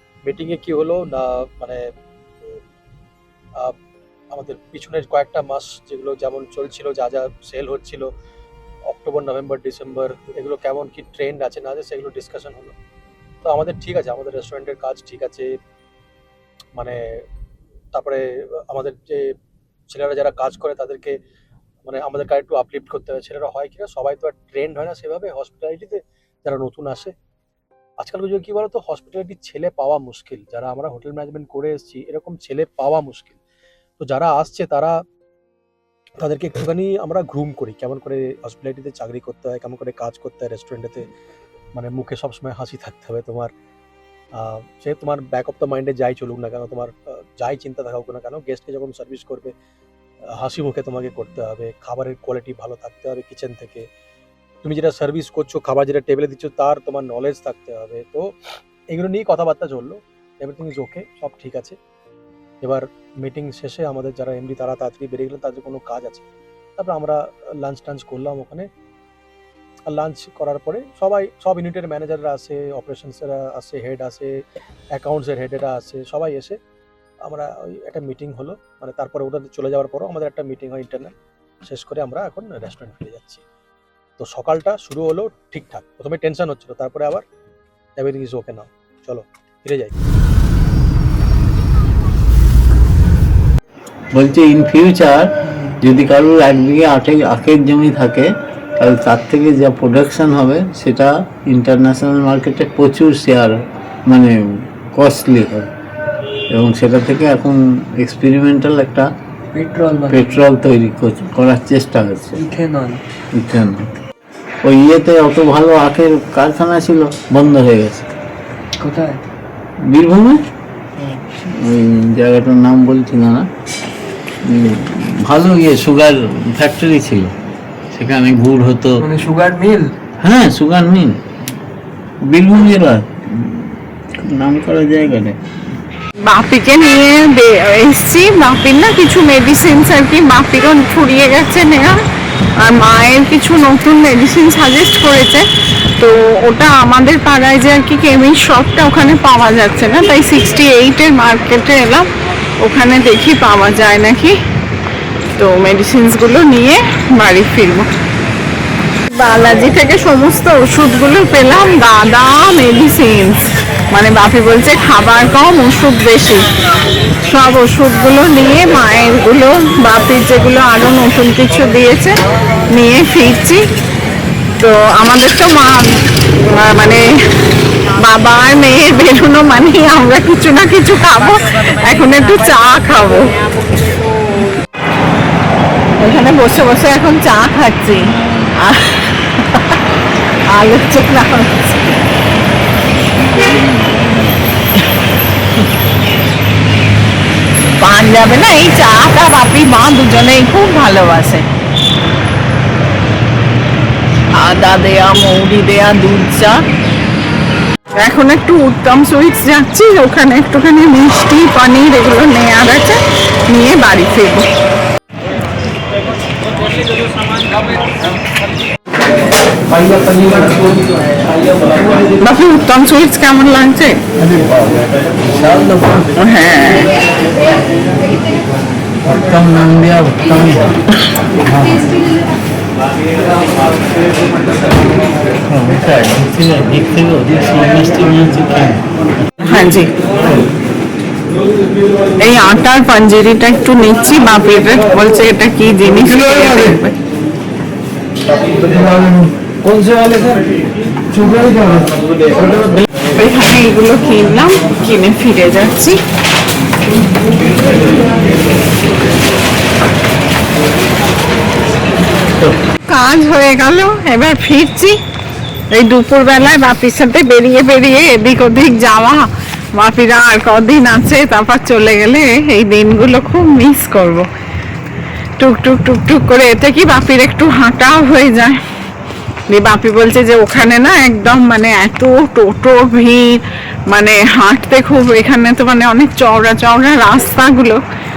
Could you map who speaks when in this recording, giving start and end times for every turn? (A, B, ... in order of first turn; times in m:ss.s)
0:00.2-0:01.8 A
0:04.3-0:08.1 A
0:08.9-0:12.7 A
0:13.4-0:15.5 A
0:16.8-0:17.2 A
0:17.9-0:19.3 A
0:19.9-0:21.2 A
0:21.8-0:27.1 A
0:28.0-0:33.4 A
0:34.0-0:35.0 A
0:36.2-0:41.1 A
0:41.8-0:43.5 A
0:44.3-0:49.5 A
0:50.4-0:53.8 A
0:54.6-1:01.8 A
1:02.6-1:08.7 A
1:09.9-1:14.3 A
1:14.9-1:16.6 A
1:17.2-1:23.4 A
1:24.2-1:27.2 A
1:28.0-1:29.9 A
1:34.1-1:45.7 B
1:46.5-1:49.1 B
1:49.5-1:50.4 C
1:50.1-1:52.4 B
1:52.3-1:53.0 C
1:53.3-1:53.9 B
1:54.6-1:58.0 B
1:58.8-1:59.2 C
1:59.8-2:00.4 B
2:01.0-2:01.3 C
2:01.4-2:03.4 B
2:04.4-2:07.3 B
2:07.9-2:09.1 B
2:09.0-2:09.9 C
2:10.2-2:11.2 B
2:12.3-2:15.4 B
2:16.2-2:22.0 D
2:22.6-2:25.4 D
2:26.0-2:32.1 D
2:32.6-2:34.4 D
2:35.4-2:37.9 D
2:39.1-2:43.3 D
2:43.9-2:46.4 D
2:47.2-2:52.2 D
2:52.7-2:53.6 D
2:54.6-2:57.0 D
2:58.0-3:03.4 D
3:06.0-3:09.8 D
3:10.5-3:11.8 D
3:17.8-3:21.4 D
3:24.3-3:26.6 D
3:28.0-3:34.5 D
3:39.9-3:40.5 B
3:42.1-3:44.0 D
3:44.2-3:44.8 B
3:45.3-3:46.1 B
3:46.2-3:46.9 D
3:49.0-3:50.7 B
3:51.4-3:52.0 B
3:55.5-3:58.8 B
3:59.4-3:59.9 D
4:00.2-4:00.5 B
4:02.2-4:07.0 D
4:09.7-4:10.0 B
4:13.1-4:16.0 D
4:22.9-4:25.0 D
4:25.7-4:29.2 D
4:29.8-4:34.3 D
4:35.4-4:38.6 D
4:39.5-4:47.8 D